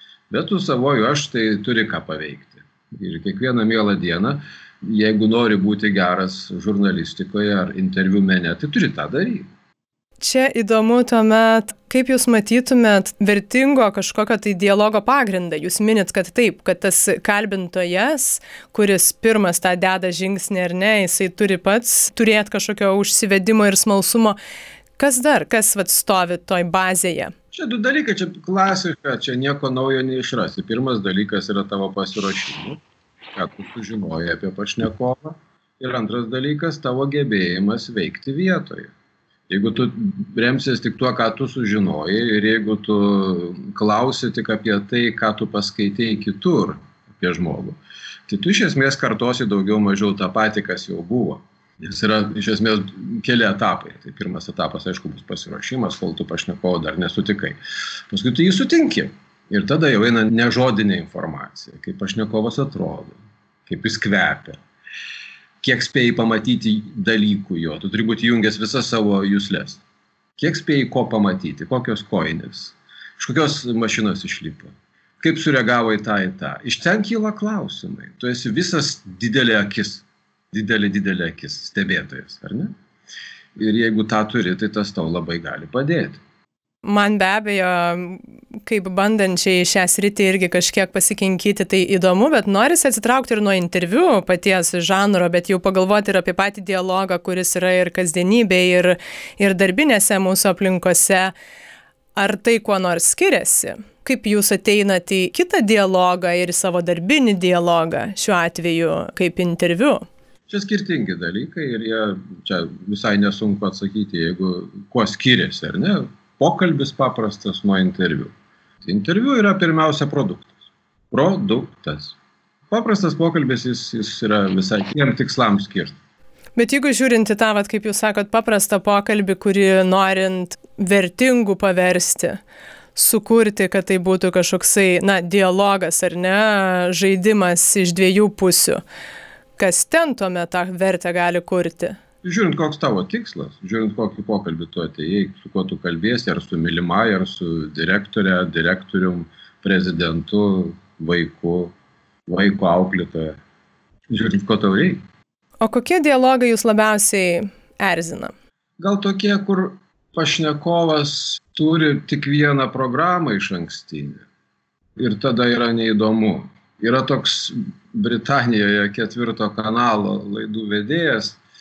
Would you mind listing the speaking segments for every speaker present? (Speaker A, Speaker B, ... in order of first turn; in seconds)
Speaker A: 0.3-9.5, 27.5-32.8, 33.3-38.9, 39.5-57.6, 58.1-64.6, 65.6-69.8, 70.4-82.7, 83.6-86.2, 110.5-118.3, 118.8-120.6, 121.1-122.2, 122.7-126.0, 142.2-151.7, 152.3-153.4, 154.1-155.0, 158.8-164.2, 165.0-171.4
Speaker B: 10.2-24.4, 25.0-27.3, 86.8-101.3, 102.2-110.1, 126.6-132.4, 132.9-138.8, 139.6-142.0, 155.6-158.3